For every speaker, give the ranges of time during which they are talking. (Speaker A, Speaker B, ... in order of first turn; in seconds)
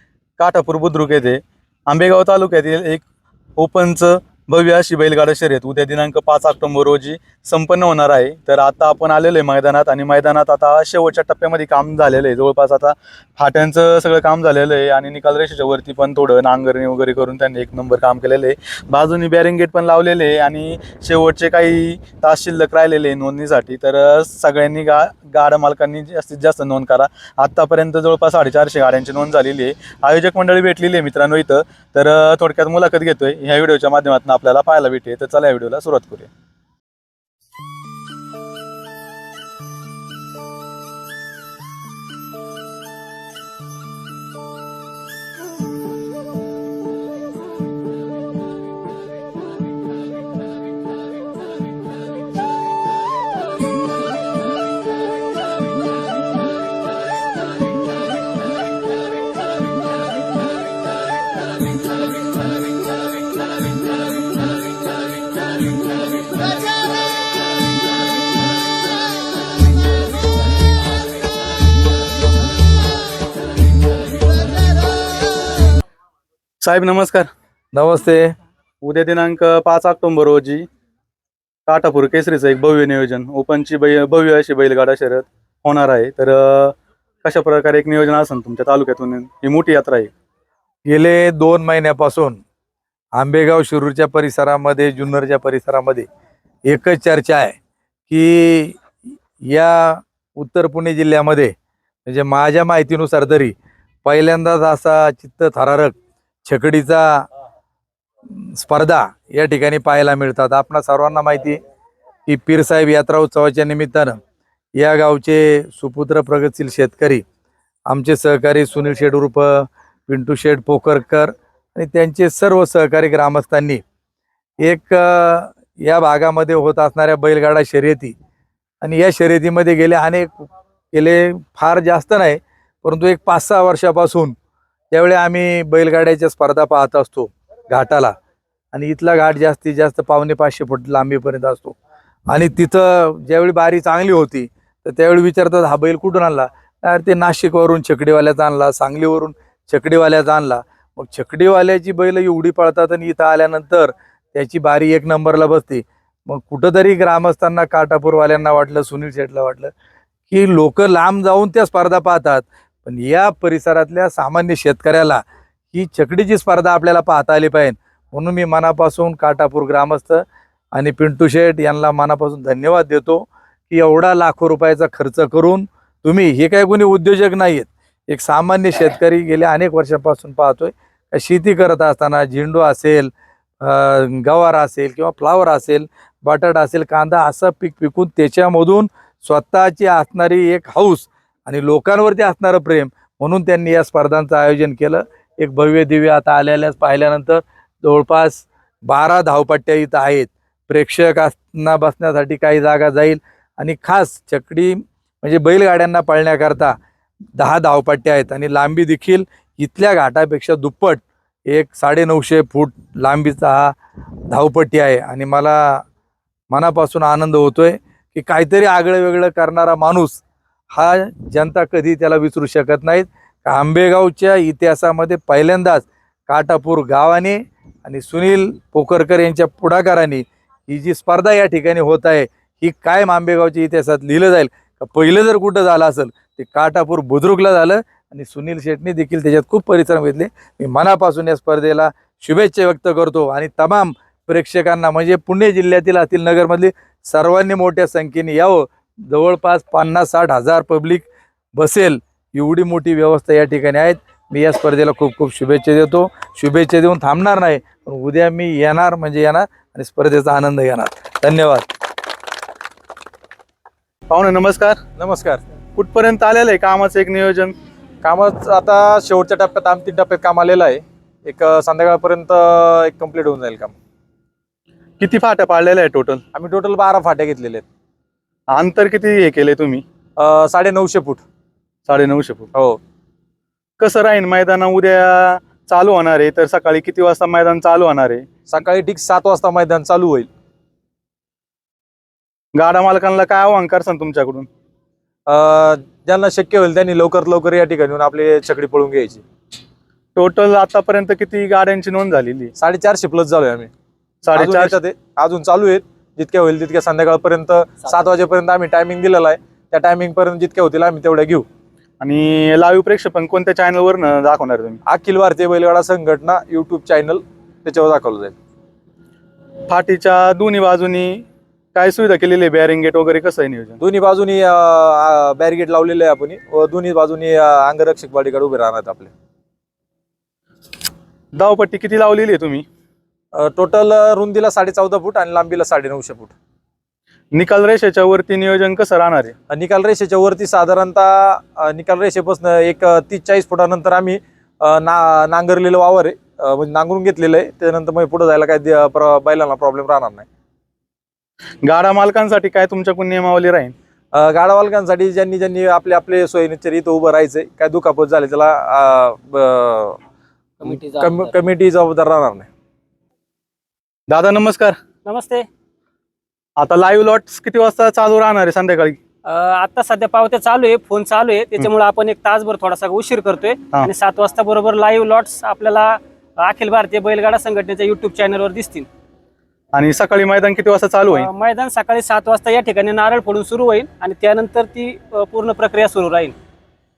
Speaker A: 0.4-3.0, 3.6-36.3, 76.6-77.3, 78.8-80.7, 81.7-90.1, 264.1-264.8, 265.7-267.5, 275.0-276.2, 278.5-279.8, 281.9-282.5, 283.8-288.2, 292.5-294.5, 300.1-302.5, 304.2-304.8, 312.0-314.8, 319.7-323.8, 331.3-332.6, 337.3-339.3, 351.6-353.7, 364.1-364.8, 366.6-369.0, 379.7-381.3
Speaker B: 77.7-78.3, 90.9-92.4, 93.2-96.1, 96.7-97.5, 98.1-98.8, 99.4-101.5, 102.0-103.5, 104.0-107.2, 108.3-111.6, 112.3-114.2, 114.8-117.2, 117.9-123.8, 124.6-128.1, 128.8-134.3, 134.9-138.1, 138.7-141.8, 142.3-159.7, 160.3-183.1, 183.6-206.7, 207.4-213.7, 214.3-215.8, 216.5-220.2, 220.7-261.7
Speaker C: 265.0-265.4, 268.0-273.7, 276.3-277.6, 280.2-281.2, 288.5-290.3, 295.3-299.2, 302.6-303.7, 304.3-311.4, 314.9-318.4, 323.8-329.1, 333.3-336.3, 339.5-350.2, 354.1-360.0, 360.6-362.5
Speaker D: 360.6-361.3, 365.0-365.4, 369.2-378.9, 381.1-386.3